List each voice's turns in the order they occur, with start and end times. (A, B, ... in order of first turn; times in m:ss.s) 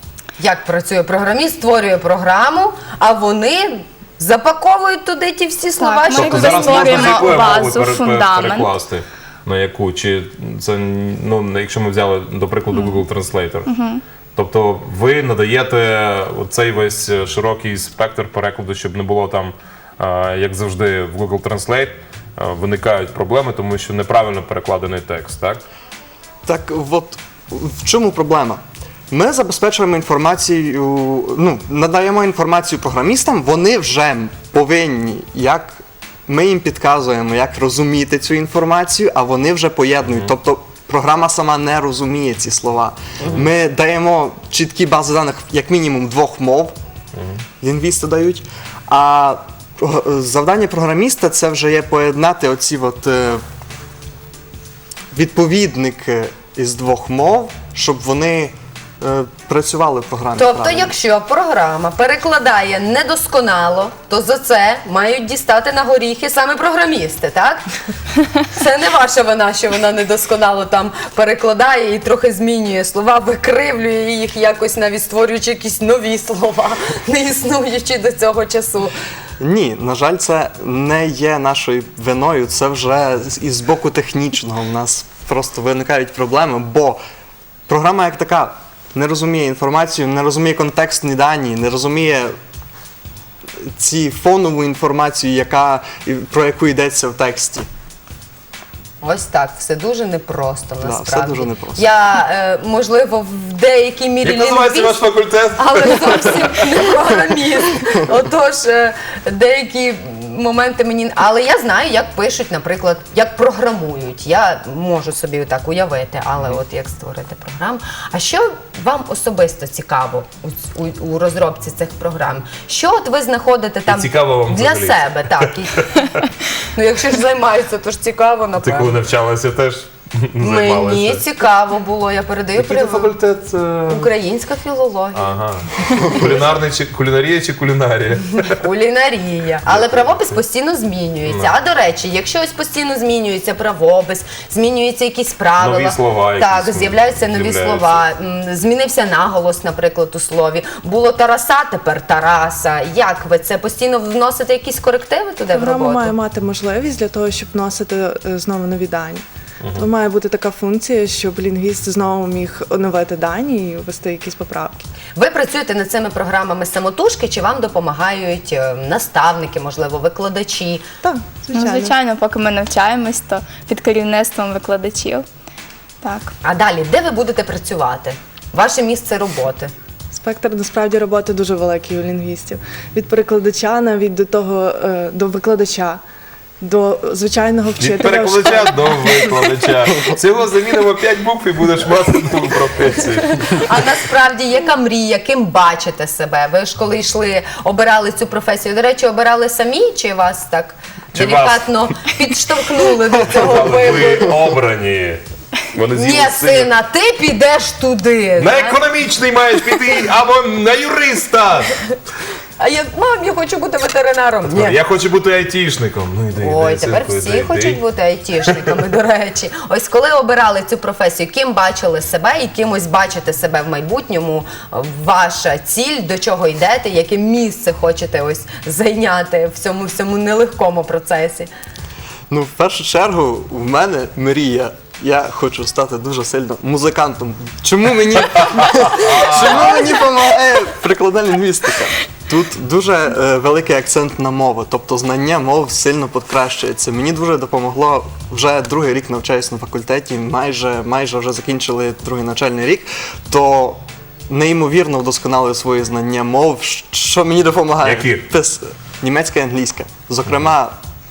0:00.4-0:07.5 A
0:05.8-0:08.7 B
0:06.1-0:13.7 C
0:12.7-0:13.0 B
0:13.7-0:14.0 B
0:14.4-0:25.6 C
0:26.5-0:46.8 D
0:40.1-0:40.3 C
0:47.6-0:53.4 D
0:55.1-1:00.9 D
1:00.4-1:07.6 A
1:08.5-1:18.9 A
1:19.4-1:27.0 D
1:27.7-1:32.4 D
1:33.6-1:37.7 D
1:39.0-1:45.0 A
1:40.8-1:41.9 D
1:44.2-1:46.8 C
1:45.6-2:05.9 A
2:03.9-2:05.8 C
2:06.6-2:09.0 A
2:08.6-2:11.2 C
2:10.4-2:13.2 A
2:12.6-2:14.1 C
2:13.9-2:15.3 A
2:15.1-2:18.6 C
2:18.6-2:36.2 A
2:19.7-2:20.4 C
2:21.2-2:21.5 C
2:25.6-2:28.0 C
2:35.5-2:44.9 E
2:39.6-2:39.9 C
2:45.2-2:50.8 A
2:51.0-2:52.0 E
2:51.5-2:55.2 B
2:56.0-2:56.3 B
2:56.4-2:59.7 A
3:00.1-3:06.0 E
3:06.6-3:09.6 E
3:07.8-3:13.7 C
3:13.4-3:24.4 A
3:21.1-3:21.8 C
3:23.3-3:25.2 C
3:25.7-3:26.7 C
3:25.9-3:28.8 A
3:28.4-3:31.8 C
3:32.6-3:34.8 A
3:34.5-3:37.8 C
3:36.4-3:51.5 A
3:52.3-4:20.8 D
3:58.9-3:59.8 C
4:17.8-4:18.2 C